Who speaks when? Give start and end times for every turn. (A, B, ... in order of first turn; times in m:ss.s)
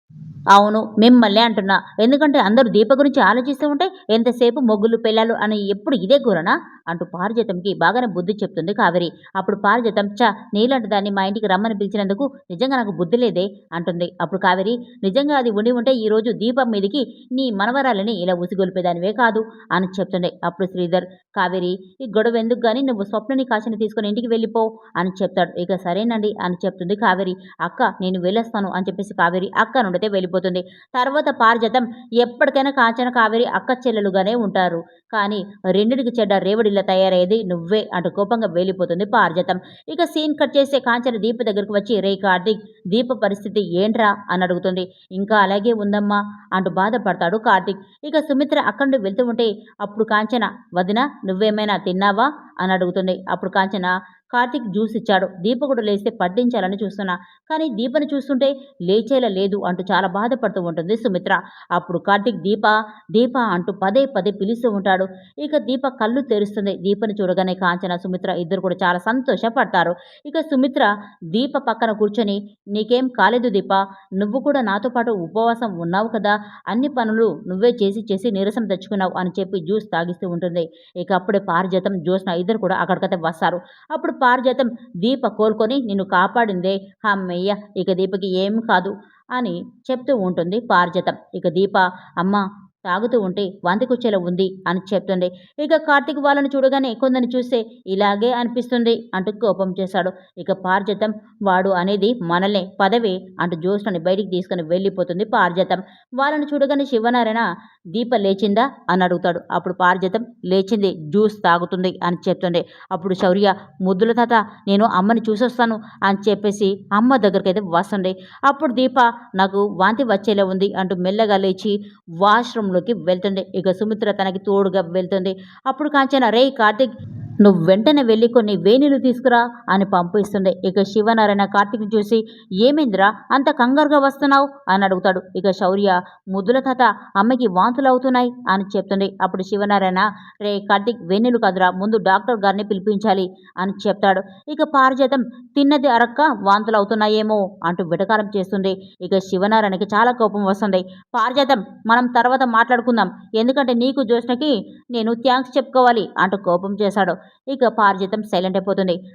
0:00.5-2:06.9 A
2:07.4-2:39.0 A